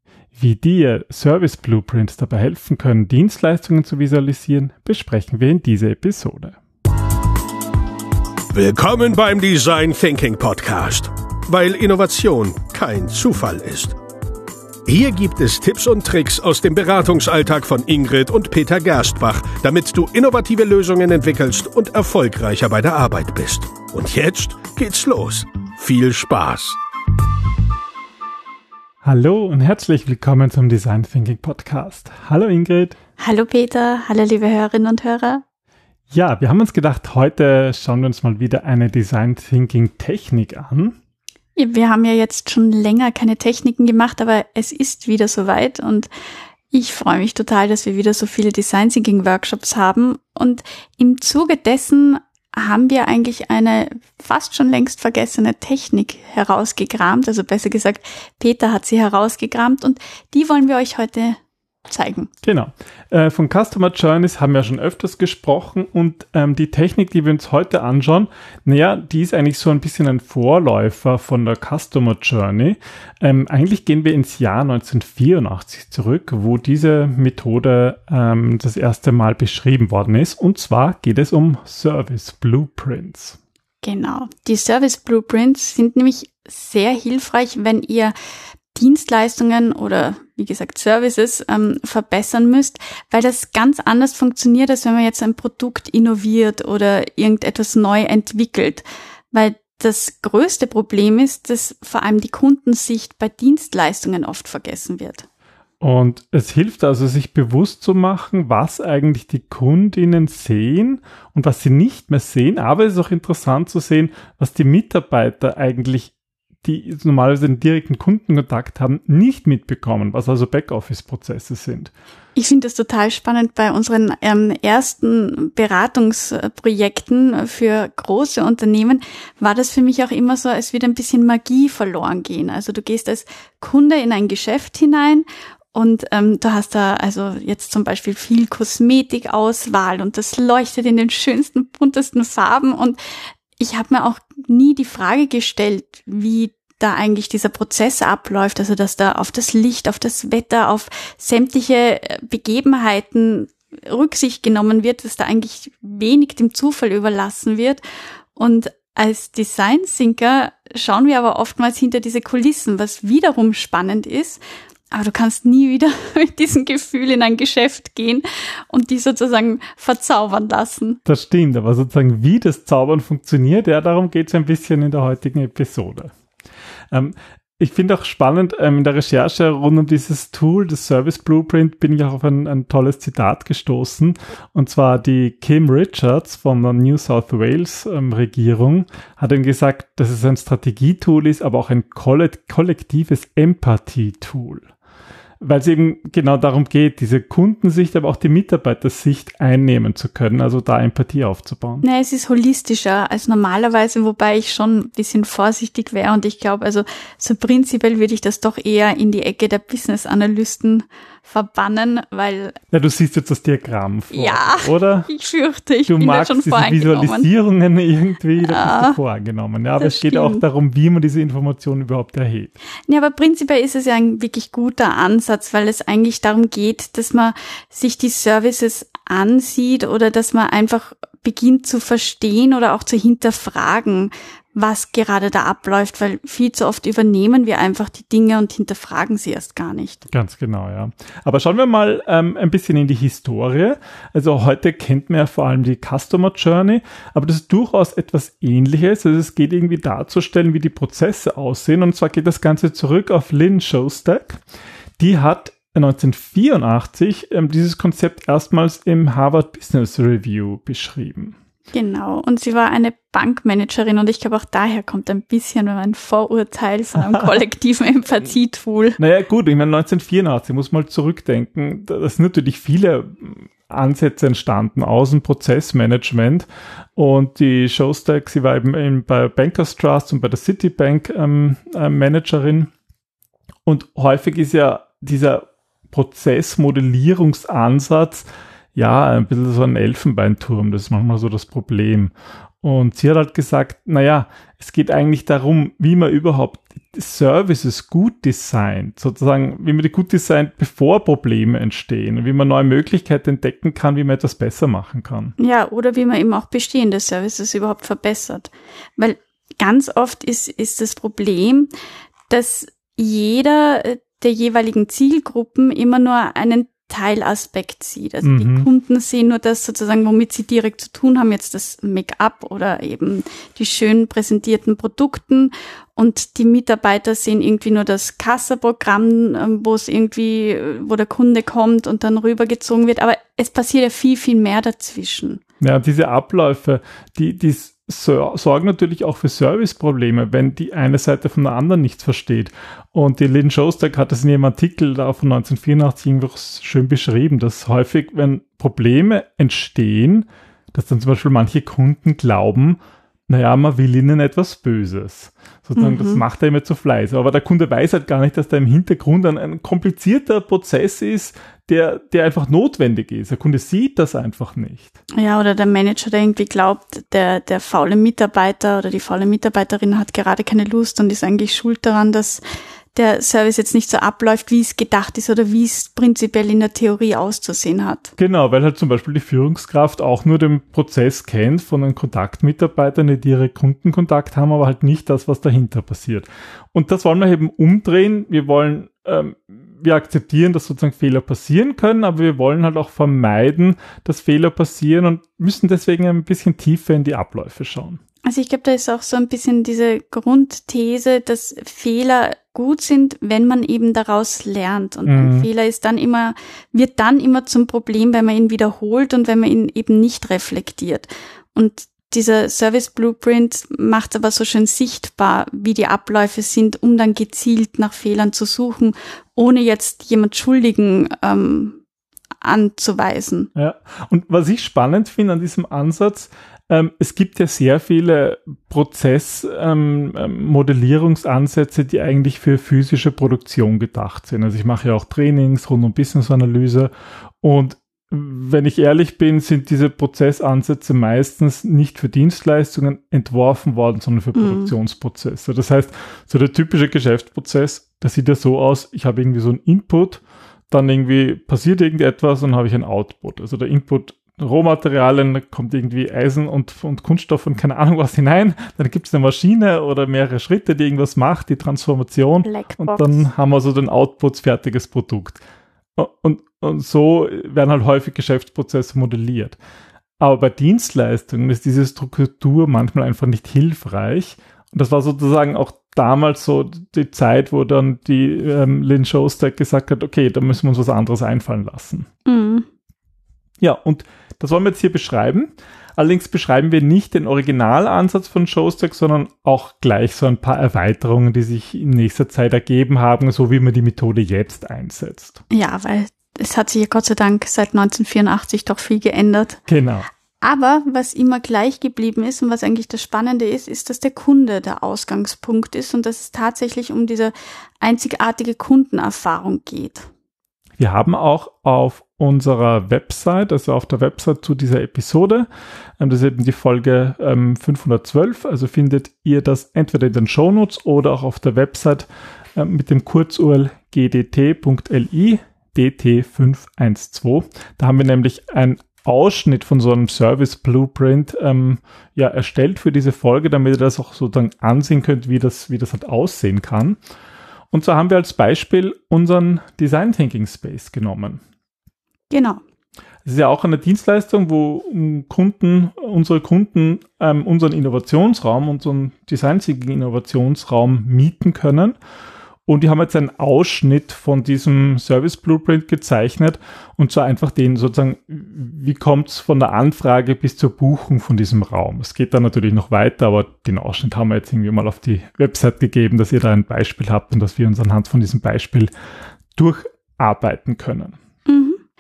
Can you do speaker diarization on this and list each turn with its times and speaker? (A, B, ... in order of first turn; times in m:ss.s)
0:00.4-0:06.6 A
0:08.5-0:14.0 B
0:14.9-0:26.8 B
0:29.0-0:33.0 A
0:33.2-0:35.4 C
0:36.1-0:41.0 A
0:41.6-0:46.1 C
0:46.7-1:02.3 C
1:02.4-1:23.4 A
1:23.8-1:28.2 C
1:28.8-1:45.3 C
1:45.8-2:01.9 A
2:02.4-2:23.0 C
2:23.6-2:37.8 C
2:38.4-2:51.0 C
2:51.1-2:56.1 A
2:56.9-3:14.7 A
3:15.4-3:21.8 A
3:21.8-3:32.6 C
3:32.7-3:35.1 A
3:34.1-3:37.3 C
3:35.9-3:42.5 A
3:38.4-3:39.0 C
3:39.8-3:40.4 C
3:42.9-4:00.0 C
4:00.1-4:14.4 A
4:15.0-4:21.4 A
4:21.7-4:29.0 C
4:29.0-4:42.7 A
4:43.7-5:05.4 A
5:05.4-5:11.7 C
5:12.3-5:35.4 C
5:18.2-5:18.7 A
5:35.6-6:05.0 A
5:55.8-5:56.2 C
6:05.2-6:12.4 C
6:12.9-6:18.1 C
6:18.2-6:38.0 A
6:38.2-7:01.8 C
6:45.1-6:45.5 A
7:02.4-7:03.5 C
7:03.6-7:16.9 A
7:17.4-7:45.4 A
7:24.4-7:24.7 C
7:42.5-7:43.3 C
7:46.0-7:49.6 A
7:50.2-8:02.1 A
8:02.3-8:02.7 C
8:03.6-8:15.4 A
8:15.5-8:19.6 C
8:19.7-8:20.1 A
8:20.4-8:30.1 C
8:30.8-8:35.5 A
8:36.0-8:57.0 A
8:57.7-9:01.4 A
9:02.3-9:02.6 C
9:03.2-9:12.0 A
9:12.7-9:28.9 A
9:29.6-9:31.2 A
9:31.5-9:31.8 C